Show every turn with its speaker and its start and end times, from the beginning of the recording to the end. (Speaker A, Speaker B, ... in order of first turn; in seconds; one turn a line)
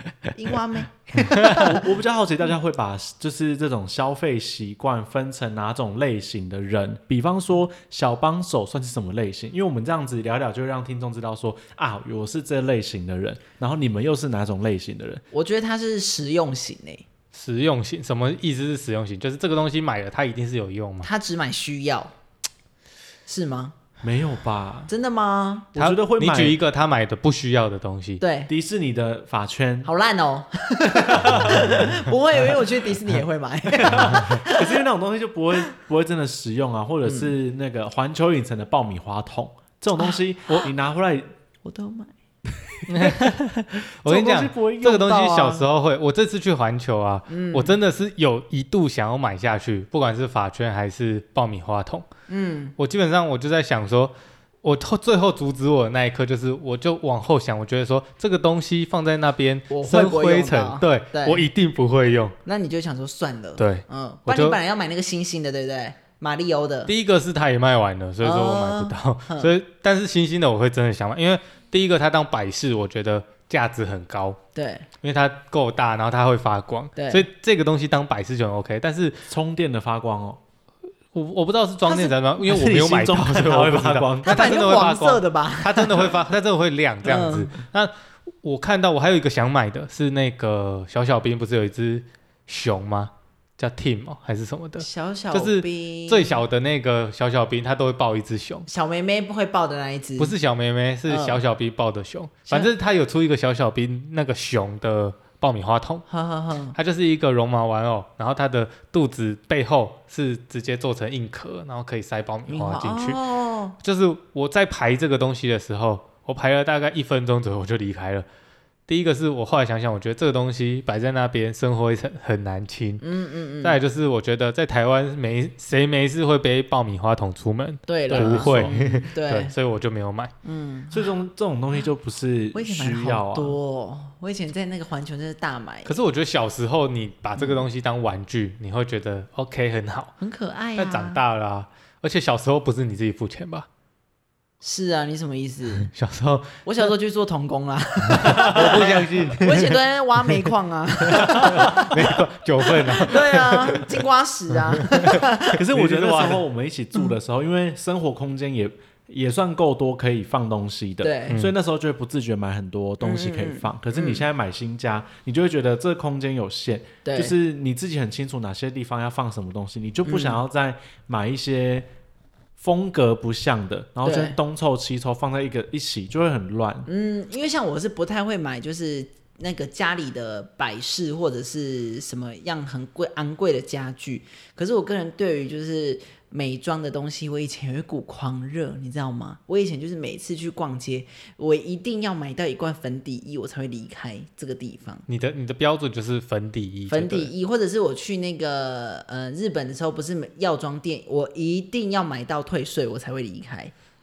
Speaker A: 0.3-1.8
Speaker B: 1.5-15.2
Speaker A: 15.3-17.1
Speaker C: 17.3-21.1
Speaker A: 21.0-22.1
Speaker A: 23.3-23.8
Speaker B: 24.0-24.9
Speaker A: 24.9-25.7
Speaker B: 25.7-26.6
Speaker C: 25.8-28.2
Speaker A: 28.2-28.5
Speaker B: 28.5-29.9
Speaker A: 29.8-34.8
Speaker B: 31.1-31.9
Speaker B: 33.8-41.3
Speaker A: 37.1-37.3
Speaker A: 40.0-40.6
Speaker A: 41.6-42.1
Speaker B: 42.8-43.1
Speaker C: 42.9-52.1
Speaker B: 44.0-45.7
Speaker A: 47.3-47.8
Speaker A: 52.3-52.8
Speaker C: 52.8-62.4
Speaker A: 59.7-61.5
Speaker A: 62.5-66.9
Speaker C: 63.6-64.6
Speaker C: 66.9-74.4
Speaker A: 68.2-69.5
Speaker A: 74.5-74.9
Speaker C: 75.0-79.2
Speaker A: 77.0-77.2
Speaker B: 79.3-80.4
Speaker C: 81.1-87.9
Speaker A: 81.9-82.1
Speaker B: 82.4-84.5
Speaker A: 84.2-86.1
Speaker A: 87.0-87.5
Speaker C: 88.4-98.7
Speaker A: 94.8-96.4
Speaker A: 98.7-100.3
Speaker C: 100.2-106.0
Speaker A: 101.1-101.4
Speaker A: 106.1-106.8
Speaker C: 106.8-113.2
Speaker A: 112.5-113.8
Speaker C: 113.8-118.2
Speaker C: 118.9-123.0
Speaker A: 123.0-123.8
Speaker C: 123.6-130.3
Speaker A: 127.9-129.5
Speaker B: 128.1-128.7
Speaker A: 130.4-131.1
Speaker B: 130.9-133.6
Speaker A: 132.5-135.9
Speaker C: 135.9-140.2
Speaker A: 137.4-137.6
Speaker A: 140.2-141.2
Speaker C: 140.8-143.7
Speaker A: 144.6-145.9
Speaker C: 145.8-146.7
Speaker A: 146.6-152.2
Speaker C: 148.2-149.8
Speaker B: 148.3-148.9
Speaker C: 151.1-154.0
Speaker A: 152.7-155.6
Speaker C: 154.5-156.4
Speaker B: 155.6-171.9
Speaker A: 161.0-161.4
Speaker A: 163.0-164.2
Speaker A: 167.1-167.3
Speaker A: 170.1-170.4
Speaker B: 172.6-176.9
Speaker A: 174.1-174.4
Speaker A: 176.9-195.1
Speaker C: 195.1-197.3
Speaker A: 196.9-203.7